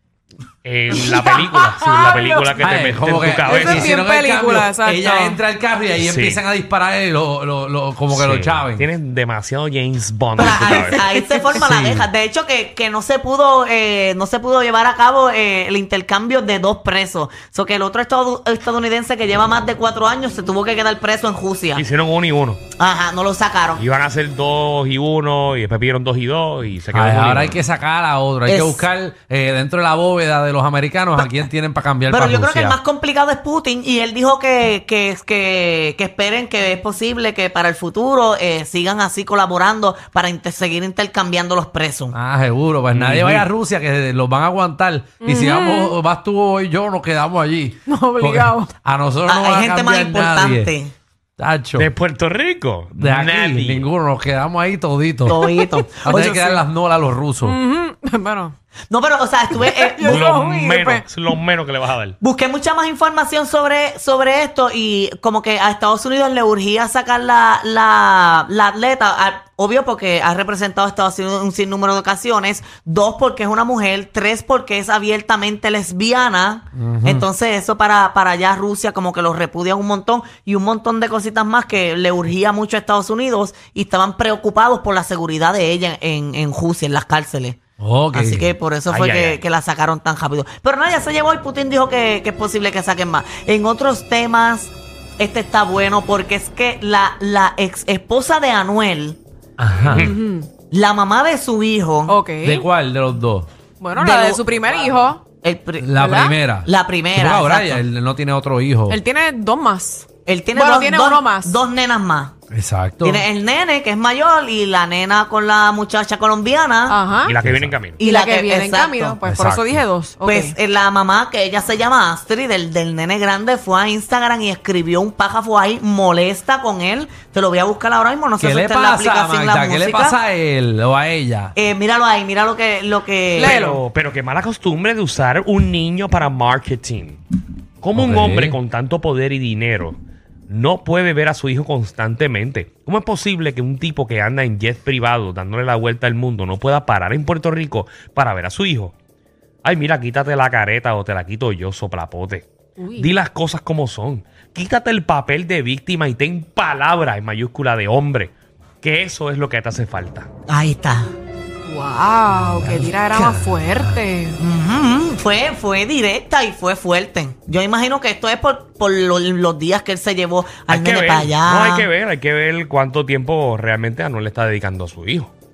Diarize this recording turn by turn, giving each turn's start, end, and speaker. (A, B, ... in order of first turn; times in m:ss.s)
0:00.6-0:04.0 A
0:00.9-0:02.6 B
0:02.6-0:08.9 C
0:03.4-0:05.4 B
0:06.0-0:06.4 A
0:08.1-0:11.1 A
0:10.4-0:21.8 D
0:11.2-0:11.6 B
0:11.6-0:12.1 C
0:21.8-0:22.6 A
0:22.8-0:23.8 D
0:23.8-0:27.6 A
0:26.9-0:32.8 C
0:28.4-0:28.9 D
0:31.2-0:31.4 D
0:32.1-0:42.1 D
0:42.1-0:50.7 C
0:42.9-0:43.5 A
0:45.2-0:45.9 B
0:47.9-0:48.7 B
0:49.3-0:50.9 D
0:51.4-0:51.9 C
0:51.8-0:53.9 A
0:53.0-0:55.4 C
0:55.3-0:56.6 D
0:55.3-0:56.6 B
0:56.0-0:57.6 C
0:57.4-0:58.6 B
0:58.9-1:00.3 D
0:59.6-1:01.0 B
1:00.0-1:02.2 A
1:02.2-1:27.6 D
1:16.8-1:17.2 C
1:27.8-1:28.5 C
1:28.1-1:39.2 D
1:28.9-1:29.4 A
1:39.6-1:40.1 C
1:39.8-1:40.1 A
1:40.0-1:40.5 B
1:40.7-1:42.2 D
1:42.1-1:42.7 B
1:42.4-1:43.5 C
1:43.8-1:45.2 B
1:44.0-1:44.8 D
1:45.4-1:45.9 D
1:45.8-1:49.0 C
1:46.0-1:46.4 B
1:46.6-1:47.8 D
1:48.9-1:51.6 B
1:50.3-1:52.4 D
1:52.5-1:53.2 C
1:53.0-1:57.0 D
1:56.9-1:57.4 B
1:57.3-1:58.0 A
1:57.4-1:57.8 C
1:58.0-1:59.2 D
1:58.0-2:00.6 B
1:59.3-1:59.8 C
2:00.2-2:10.2 D
2:08.4-2:11.6 C
2:11.6-2:13.6 D
2:13.4-2:17.2 A
2:13.4-2:13.8 B
2:17.8-2:20.0 A
2:18.0-2:18.6 C
2:20.5-2:28.9 A
2:29.6-2:32.5 A
2:32.8-2:33.1 B
2:33.0-2:40.3 A
2:40.5-2:41.1 D
2:41.7-2:44.4 B
2:42.5-2:43.9 C
2:44.4-2:51.9 D
2:50.7-2:55.3 A